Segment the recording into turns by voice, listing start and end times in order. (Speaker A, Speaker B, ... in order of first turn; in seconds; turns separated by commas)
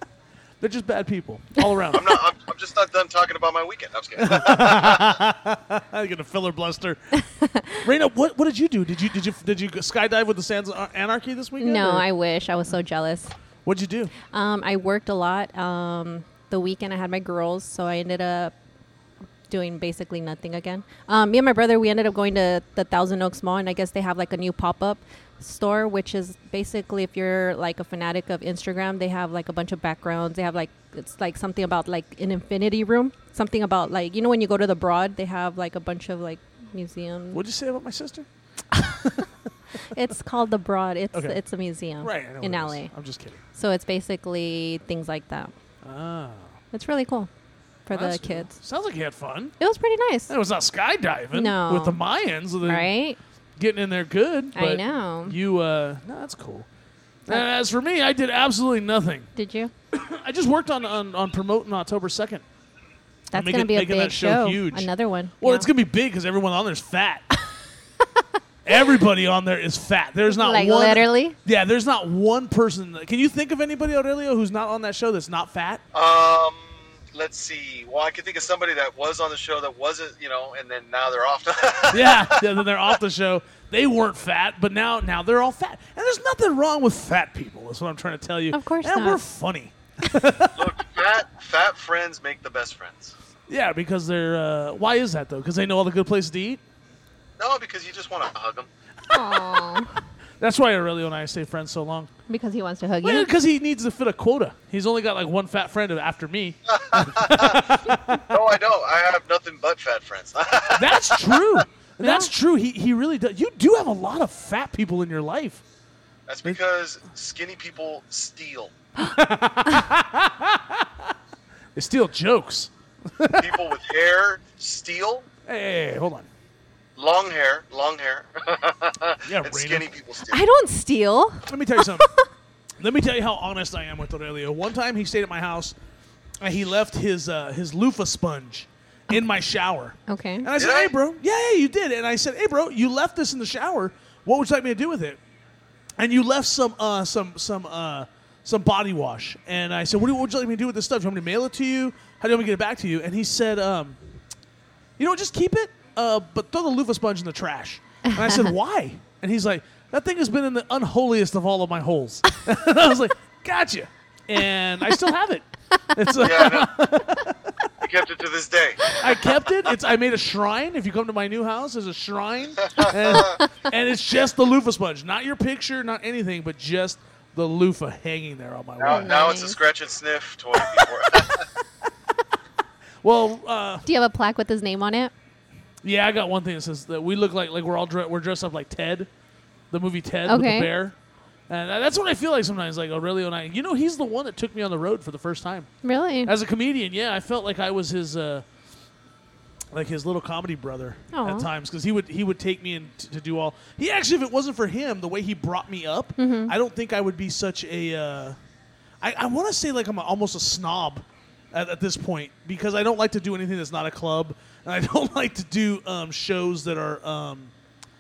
Speaker A: 0.6-2.1, Speaker B: 1.9-5.2, Speaker A: 4.2-7.0, Speaker C: 7.4-7.8, Speaker A: 7.8-12.1, Speaker C: 11.6-13.3, Speaker A: 13.7-14.1, Speaker C: 14.3-18.5, Speaker C: 19.5-37.4, Speaker A: 37.3-38.3, Speaker A: 39.0-39.3, Speaker C: 39.9-42.9, Speaker A: 41.1-41.4, Speaker A: 42.0-43.4, Speaker C: 43.5-45.5, Speaker A: 45.8-46.5, Speaker C: 46.7-47.3, Speaker C: 47.9-48.5, Speaker A: 47.9-49.5, Speaker C: 49.6-50.3, Speaker A: 50.3-52.9, Speaker C: 51.3-52.0, Speaker C: 52.6-53.2, Speaker A: 53.6-56.7, Speaker C: 54.5-55.4, Speaker A: 57.3-59.3, Speaker C: 59.4-59.7, Speaker A: 59.9-62.4, Speaker C: 63.3-65.7, Speaker A: 63.3-64.9, Speaker A: 65.4-67.3, Speaker A: 68.7-75.8, Speaker C: 70.3-71.4, Speaker B: 75.9-82.5, Speaker A: 81.9-90.7, Speaker C: 88.5-89.2, Speaker B: 90.5-93.1, Speaker A: 93.5-96.6, Speaker B: 97.4-98.7, Speaker C: 99.1-100.0, Speaker A: 100.4-102.1, Speaker C: 102.3-103.3, Speaker A: 103.0-108.3, Speaker B: 106.7-107.6, Speaker B: 108.3-111.6, Speaker A: 110.8-115.6, Speaker C: 112.0-112.3, Speaker B: 116.3-118.7, Speaker A: 119.0-121.1, Speaker A: 121.8-123.6, Speaker B: 123.4-125.3, Speaker A: 125.5-126.3, Speaker B: 127.0-130.4, Speaker A: 129.2-129.9, Speaker C: 130.3-132.3, Speaker A: 131.5-132.1, Speaker A: 132.8-135.8, Speaker A: 136.4-145.2, Speaker C: 140.1-140.5, Speaker B: 140.6-140.9, Speaker A: 146.0-154.0, Speaker A: 155.0-167.5, Speaker B: 166.2-166.7, Speaker B: 167.8-169.0, Speaker A: 169.0-179.3, Speaker B: 172.8-173.3, Speaker B: 178.8-181.5, Speaker C: 178.9-179.6, Speaker A: 183.0-183.9, Speaker C: 183.9-185.1, Speaker A: 185.8-189.1, Speaker A: 189.7-190.9, Speaker C: 190.3-190.7, Speaker A: 191.5-195.7, Speaker C: 195.8-196.3, Speaker A: 196.2-198.4, Speaker A: 199.7-208.4, Speaker C: 201.1-201.5, Speaker C: 206.2-206.6, Speaker A: 209.0-217.5